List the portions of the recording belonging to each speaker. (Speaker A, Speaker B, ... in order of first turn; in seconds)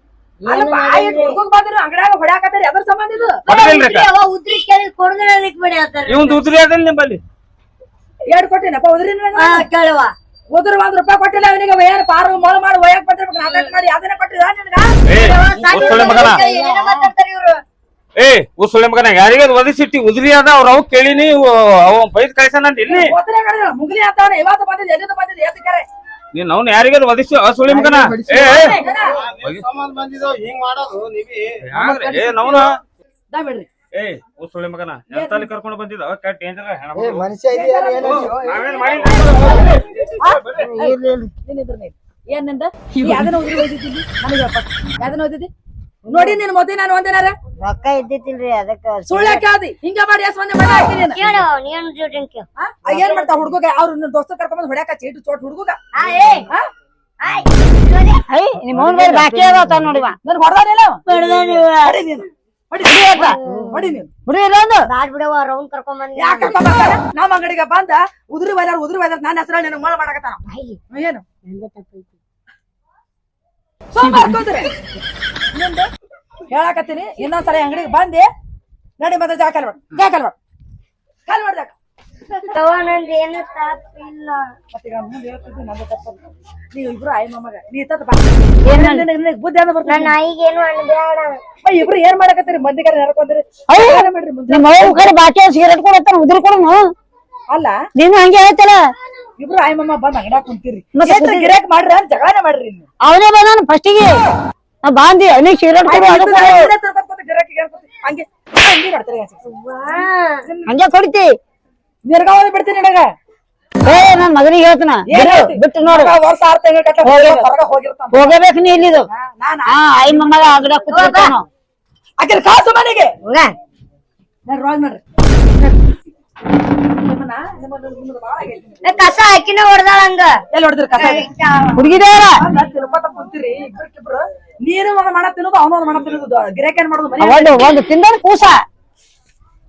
Speaker A: 0.4-1.4, 3.5-6.4, 9.3-10.1, 15.2-17.6, 51.1-52.5, 55.9-56.5, 57.2-58.2, 61.1-61.9, 63.2-63.9, 64.9-66.6, 70.5-70.8, 71.5-72.2, 82.3-84.4, 89.8-91.4, 109.5-110.4, 120.9-121.3, 128.8-130.3, 131.0-131.8
Speaker B: 0.5-3.4, 8.3-9.7, 10.5-14.9, 22.9-25.8, 28.5-29.2, 31.7-32.7, 33.3-33.7, 35.1-35.5, 37.5-38.5, 39.1-45.5, 46.1-47.4, 49.1-51.2, 52.6-55.8, 60.2-64.1, 66.2-71.2, 73.9-74.7, 75.5-75.9, 76.5-78.3, 79.0-80.3, 81.3-81.7, 84.7-86.2, 86.7-90.1, 91.6-95.1, 99.4-102.8, 105.8-109.4, 110.5-110.7, 112.0-113.0, 115.1-118.3, 119.1-120.4, 122.2-123.1, 124.5-125.0, 127.0-129.0, 130.5-131.2, 132.4-137.7
Speaker C: 3.5-4.1, 6.1-7.2, 15.1-16.4, 18.2-23.1, 26.3-28.8, 29.4-29.7, 31.7-32.7, 33.9-37.3, 38.0-40.6
Speaker D: 27.7-31.6, 37.0-38.7
Speaker E: 40.6-41.3, 46.1-46.3, 47.6-49.4, 58.8-59.8
Speaker F: 58.3-60.2, 62.9-63.3, 64.3-64.9, 88.6-89.0, 93.7-96.9, 98.0-98.9, 100.9-101.5, 103.0-104.2, 104.8-106.7, 110.7-111.3, 113.8-116.1, 117.0-117.4, 118.1-119.1, 119.7-121.5, 131.8-132.4, 137.2-138.6